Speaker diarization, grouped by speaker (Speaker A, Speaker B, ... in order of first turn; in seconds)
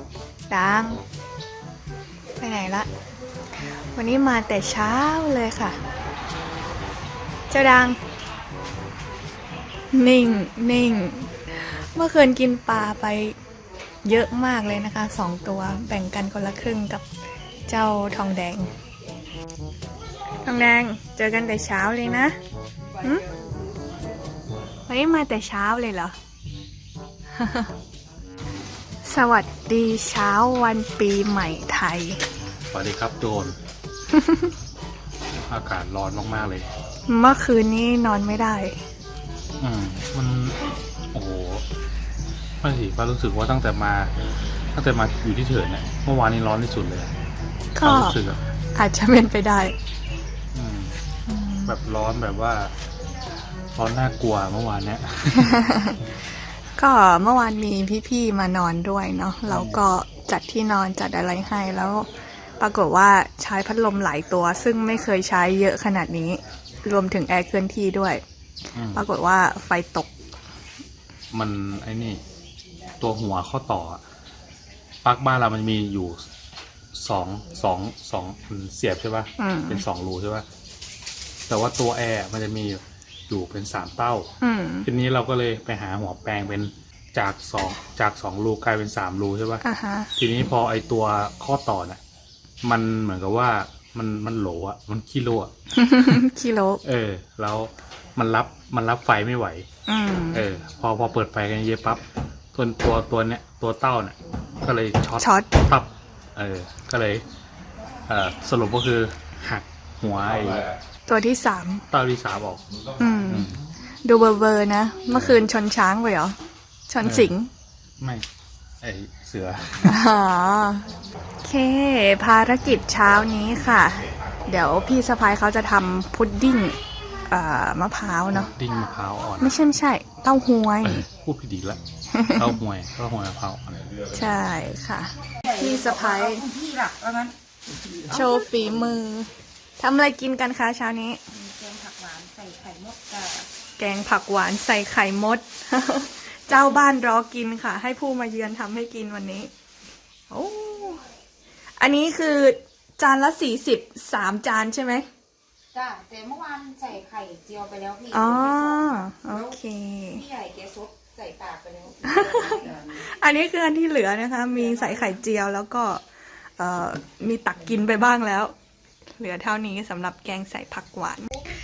Speaker A: 0.5-1.0, 2.4-2.9, 3.9-5.8, 7.5-8.0, 9.9-13.3, 14.0-17.0, 17.7-18.7, 20.4-22.3, 23.0-23.2, 24.9-26.1, 27.4-27.6, 29.0-32.2, 34.1-34.5, 37.1-38.8, 47.8-48.1, 48.7-49.7, 51.3-51.7, 55.4-56.0, 56.8-62.1, 62.6-68.2, 68.9-70.1, 79.4-79.8, 84.4-84.9, 89.6-90.1, 95.7-96.8, 99.9-100.4, 105.2-105.5, 111.1-111.8, 113.0-113.5, 114.0-116.3, 116.9-117.5, 119.8-120.9, 121.4-128.5, 129.4-131.0, 132.1-132.4, 134.1-136.4, 138.1-141.2, 143.8-149.5, 150.3-151.0, 151.8-155.1, 158.1-160.2, 162.1-166.0, 166.6-168.5, 169.1-171.2
Speaker B: 32.7-33.6, 35.5-36.7, 39.6-40.6, 41.1-41.6, 42.6-44.1, 44.7-47.1, 47.8-48.4, 50.5-51.0, 51.6-52.7, 53.8-55.6, 68.7-69.0, 71.3-72.2, 73.0-74.0, 75.0-76.2, 76.9-80.4, 81.5-84.3, 84.8-89.6, 90.2-92.0, 92.6-95.5, 96.8-99.7, 100.3-102.0, 102.5-107.2, 108.1-110.7, 111.9-112.6, 113.3-113.5, 117.0-117.3, 118.8-119.9, 128.3-129.6, 130.8-131.8, 132.3-133.9
Speaker C: 135.6-137.3, 141.3-143.4, 155.7-159.4, 160.1-162.7